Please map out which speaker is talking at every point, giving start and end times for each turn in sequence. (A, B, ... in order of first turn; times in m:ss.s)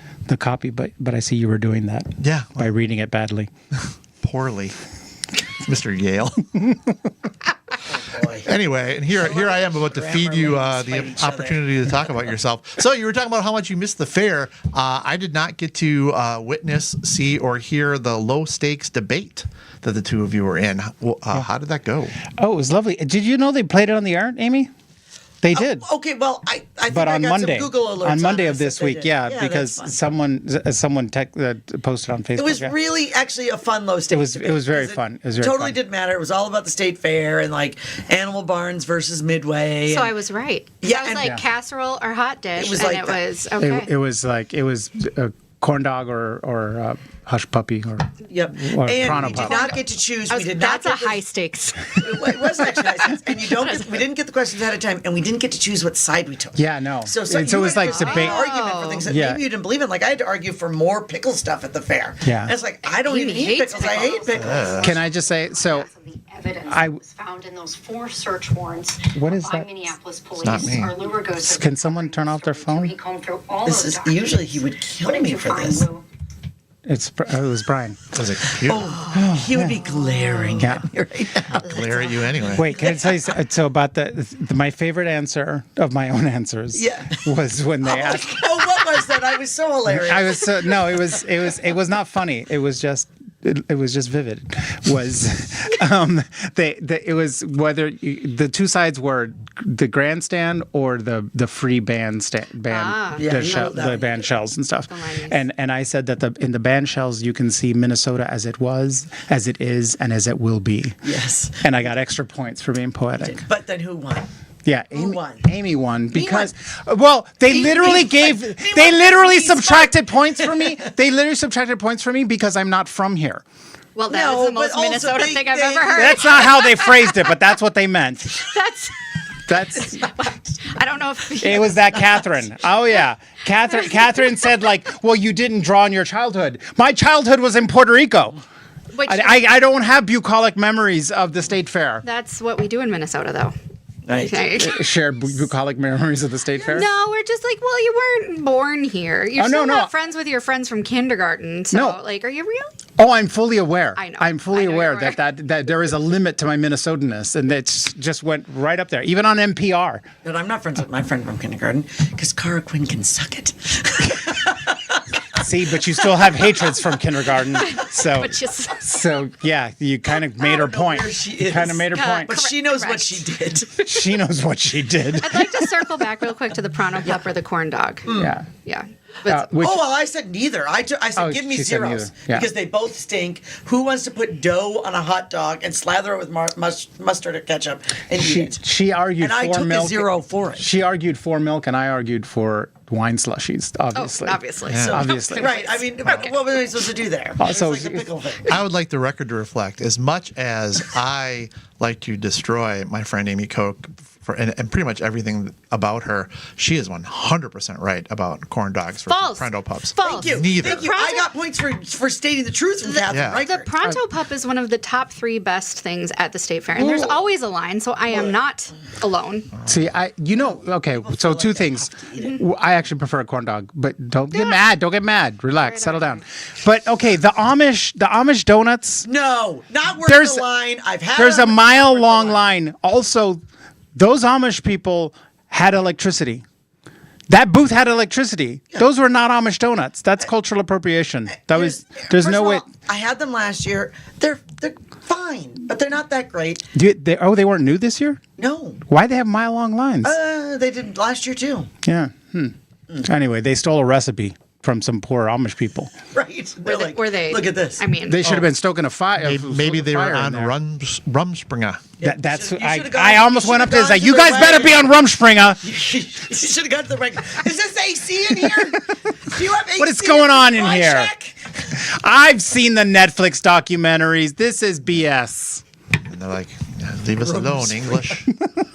0:00.3-0:03.5 A
0:02.2-0:02.7 B
0:04.2-0:04.8 B
0:05.6-0:06.5 B
0:07.9-0:08.4 C
0:08.4-0:22.2 B
0:09.1-0:12.1 C
0:22.3-0:24.7 A
0:25.4-0:25.8 A
0:25.5-0:29.9 C
0:26.9-0:32.7 A
0:32.4-0:40.1 C
0:34.1-0:35.8 A
0:39.8-0:43.9 D
0:40.8-0:41.3 C
0:42.5-0:43.2 C
0:43.6-0:49.6 A
0:48.3-0:51.2 C
0:49.0-0:54.0 D
0:52.0-1:05.0 C
0:56.6-0:58.4 A
0:57.8-0:59.1 D
0:59.1-0:59.4 A
1:02.2-1:02.5 A
1:02.8-1:04.2 D
1:03.6-1:16.0 E
1:04.3-1:04.9 B
1:04.8-1:05.9 A
1:06.7-1:07.0 A
1:09.1-1:09.9 A
1:10.4-1:11.0 B
1:11.4-1:12.9 A
1:13.6-1:15.9 C
1:16.8-1:18.0 A
1:18.1-1:18.9 B
1:18.6-1:23.0 C
1:19.1-1:19.8 A
1:20.6-1:20.8 A
1:21.5-1:22.7 B
1:22.5-1:28.6 A
1:26.7-1:27.3 C
1:27.8-1:30.9 C
1:29.9-1:51.0 A
1:42.7-1:43.4 D
1:43.2-1:44.2 C
1:44.9-1:45.4 D
1:51.0-1:51.6 C
1:51.6-1:53.4 A
1:53.2-1:54.3 C
1:54.6-2:03.4 A
1:54.9-1:55.4 C
1:56.1-1:56.5 C
1:57.5-2:00.6 C
2:03.9-2:07.2 D
2:04.1-2:06.8 C
2:06.0-2:08.4 A
2:08.3-2:09.2 D
2:09.5-2:10.0 A
2:09.7-2:12.4 D
2:11.4-2:18.4 A
2:18.9-2:19.4 D
2:19.0-2:22.0 A
2:22.0-2:23.6 D
2:24.0-2:24.5 C
2:24.1-2:24.8 D
2:24.6-2:26.9 A
2:26.6-2:32.7 D
2:29.3-2:29.9 A
2:31.7-2:32.0 A
2:33.0-2:40.0 A
2:34.0-2:35.2 D
2:40.2-2:44.7 C
2:45.4-2:52.3 A
2:47.5-2:49.0 D
2:50.4-2:53.8 C
2:51.9-2:54.0 D
2:53.8-2:55.8 A
2:55.1-2:59.5 D
2:57.0-2:57.3 C
2:58.0-2:58.3 C
2:58.1-2:58.5 A
2:59.2-2:59.8 A
2:59.6-3:08.6 C
3:01.2-3:02.5 A
3:08.2-3:15.6 A
3:09.2-3:10.7 C
3:13.9-3:16.4 D
3:14.6-3:15.1 B
3:14.8-3:18.6 C
3:17.4-3:18.1 A
3:18.4-3:30.9 B
3:29.0-3:31.3 D
3:30.0-3:33.7 C
3:32.8-3:39.5 D
3:33.1-3:33.4 B
3:36.8-3:37.2 C
3:38.1-3:38.4 C
3:39.6-3:49.1 A
3:40.9-3:42.4 C
3:42.1-3:42.4 D
3:44.3-3:44.6 D
3:45.6-3:46.2 D
3:49.0-3:52.4 C
3:50.0-3:50.4 A
3:51.1-3:53.4 A
3:53.9-3:56.4 A
3:57.3-4:02.7 A
4:01.5-4:06.6 C
4:06.7-4:08.2 A
4:08.4-4:08.8 C
4:08.8-4:10.2 A
4:10.0-4:11.7 C
4:11.8-4:15.9 A
4:16.1-4:17.8 C
4:16.6-4:18.3 D
4:18.1-4:20.5 A
4:19.2-4:21.8 B
4:22.0-4:24.9 C
4:22.0-4:25.6 A
4:25.6-4:31.5 C
4:29.8-4:31.1 A
4:31.7-4:35.6 A
4:36.1-4:38.3 B
4:37.2-4:38.1 C